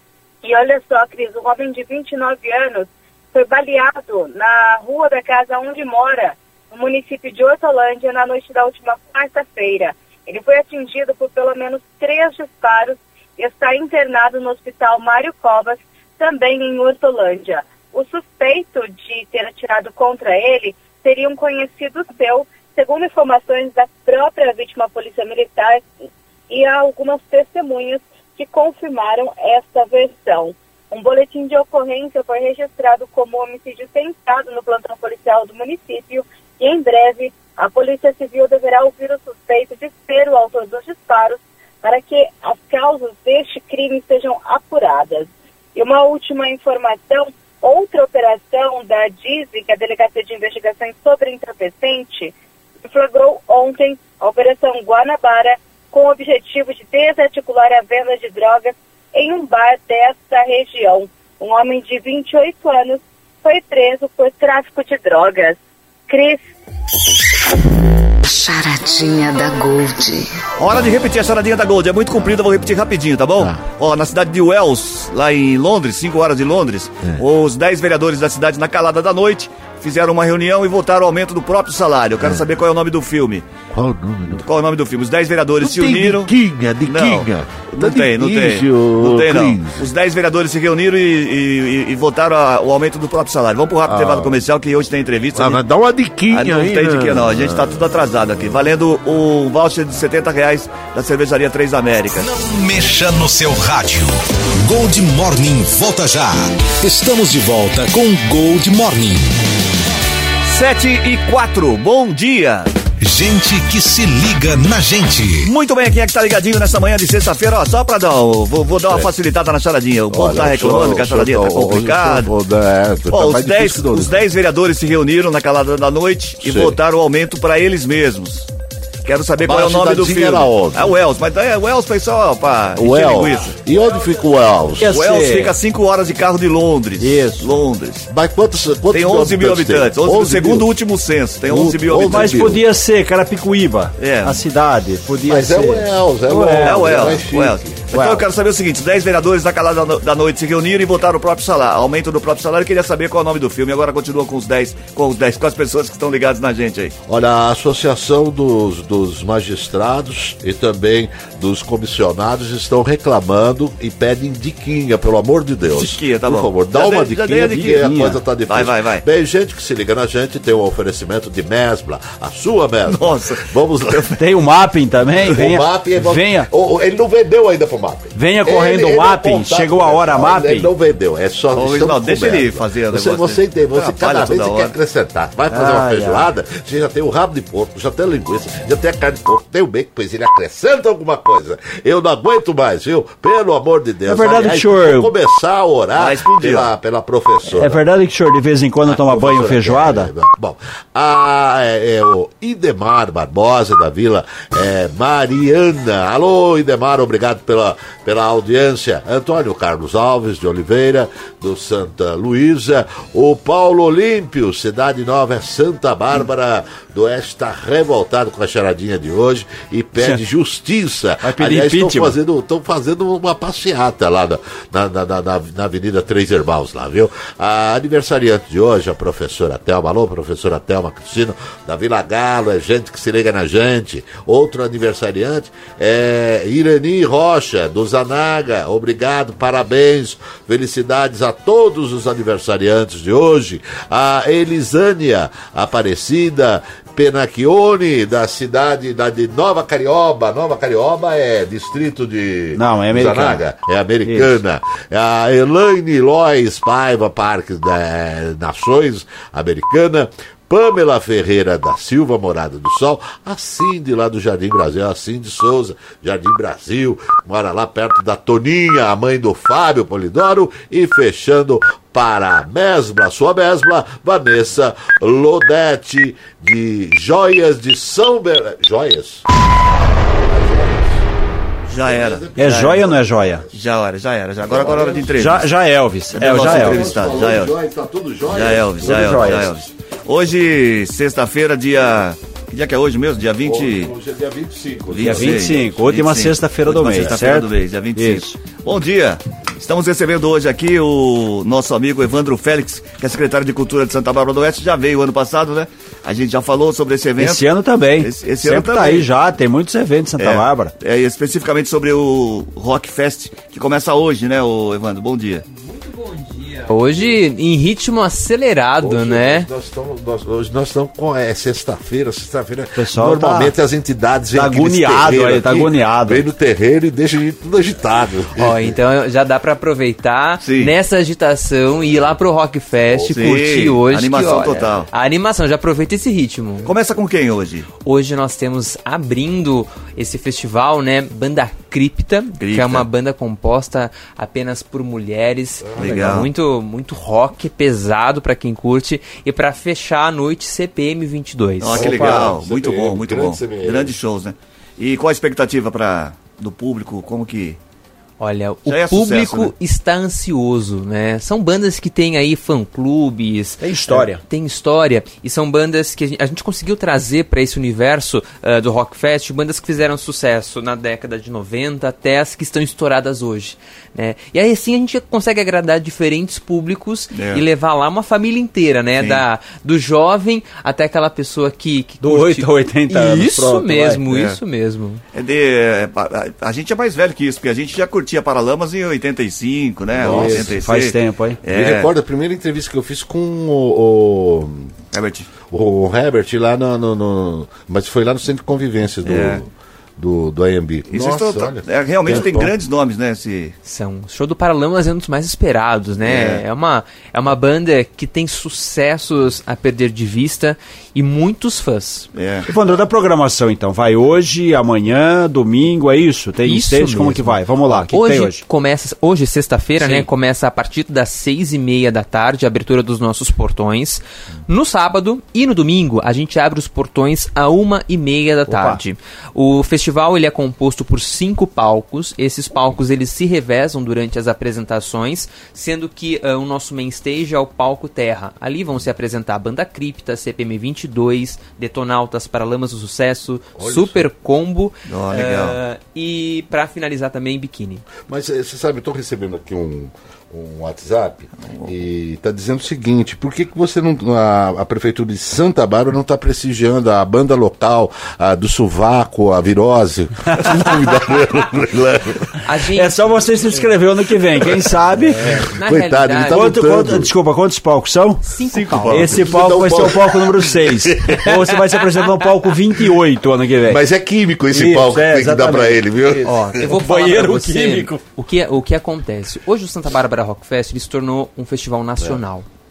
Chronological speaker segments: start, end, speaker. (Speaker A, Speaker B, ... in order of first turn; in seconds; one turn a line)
Speaker A: 0.4-25.9
Speaker A: 26.5-52.3
Speaker A: 52.9-66.4
Speaker B: 68.2-70.3
Speaker C: 70.6-83.4
Speaker D: 82.2-82.4
Speaker D: 83.7-84.4
Speaker C: 84.4-86.3
Speaker D: 85.6-89.9
Speaker C: 86.8-95.6
Speaker D: 93.9-94.4
Speaker D: 95.3-98.6
Speaker C: 96.3-102.3
Speaker E: 102.1-109.3
Speaker C: 110.5-112.7
Speaker E: 113.0-115.5
Speaker C: 115.4-122.3
Speaker D: 118.7-119.1
Speaker D: 120.1-124.2
Speaker C: 123.1-128.5
Speaker D: 126.4-126.8
Speaker C: 129.0-133.6
Speaker D: 129.4-130.9
Speaker D: 132.8-135.0
Speaker F: 134.8-135.5
Speaker C: 134.9-138.1
Speaker F: 137.0-137.5
Speaker D: 138.1-140.7
Speaker C: 138.9-142.5
Speaker D: 141.4-142.6
Speaker F: 142.1-147.2
Speaker C: 144.0-144.4
Speaker D: 145.2-147.8
Speaker C: 146.6-156.9
Speaker F: 147.9-148.2
Speaker D: 157.1-174.1
Speaker C: 165.7-167.9
Speaker F: 167.4-168.2
Speaker C: 168.5-169.0
Speaker C: 172.9-174.2
Speaker F: 174.2-176.5
Speaker D: 175.2-197.8
Speaker F: 178.1-180.7
Speaker C: 181.5-184.7
Speaker C: 185.5-186.3
Speaker F: 194.1-195.1
Speaker C: 196.0-196.7
Speaker F: 197.5-200.1
Speaker D: 198.8-279.2
Speaker F: 221.2-222.2
Speaker F: 252.6-253.4
Speaker F: 254.0-254.3
Speaker D: 280.1-281.1
Speaker C: 281.7-282.8
Speaker D: 281.8-283.6
Speaker F: 282.4-283.4
Speaker C: 283.5-285.5
Speaker D: 284.4-285.3
Speaker F: 285.1-286.9
Speaker C: 286.1-287.5
Speaker D: 286.2-289.4
Speaker C: 288.3-293.9
Speaker F: 288.8-289.5
Speaker D: 293.4-295.8
Speaker C: 294.9-309.1
Speaker F: 295.0-298.4
Speaker F: 307.2-310.7
Speaker C: 310.2-315.4
Speaker G: 315.4-319.5
Speaker D: 316.7-317.1
Speaker D: 318.8-328.8
Speaker F: 322.8-323.5
Speaker F: 324.3-326.2
Speaker G: 328.4-336.7
Speaker C: 330.4-330.7
Speaker D: 332.8-333.5
Speaker C: 333.1-334.9
Speaker C: 336.6-337.7
Speaker G: 337.8-351.8
Speaker C: 342.4-342.9
Speaker D: 345.6-346.3
Speaker C: 345.8-346.3
Speaker C: 351.6-357.6
Speaker D: 351.7-353.9
Speaker F: 351.8-352.3
Speaker G: 358.2-385.0
Speaker C: 358.7-359.5
Speaker F: 363.6-364.2
Speaker C: 377.1-377.4
Speaker C: 379.0-379.2
Speaker F: 382.0-384.0
Speaker C: 384.1-384.4
Speaker C: 385.1-391.9
Speaker D: 389.9-390.6
Speaker F: 390.1-391.4
Speaker D: 391.4-394.8
Speaker C: 394.9-395.3
Speaker D: 395.5-402.5
Speaker C: 399.0-399.4
Speaker C: 400.9-403.5
Speaker G: 403.6-412.1
Speaker C: 406.0-406.4
Speaker C: 412.1-412.4
Speaker F: 412.4-418.4
Speaker G: 416.4-447.9
Speaker C: 419.8-420.1
Speaker F: 428.5-428.8
Speaker D: 443.6-444.1
Speaker C: 444.9-445.6
Speaker D: 448.0-462.2
Speaker C: 451.4-451.7
Speaker G: 462.4-463.5
Speaker F: 462.7-465.4
Speaker G: 465.3-466.7
Speaker D: 465.4-467.1
Speaker F: 466.3-473.8
Speaker G: 468.2-469.1
Speaker C: 468.7-469.2
Speaker D: 469.1-471.4
Speaker G: 472.0-472.3
Speaker D: 473.6-476.7
Speaker F: 474.5-478.0
Speaker G: 476.5-482.5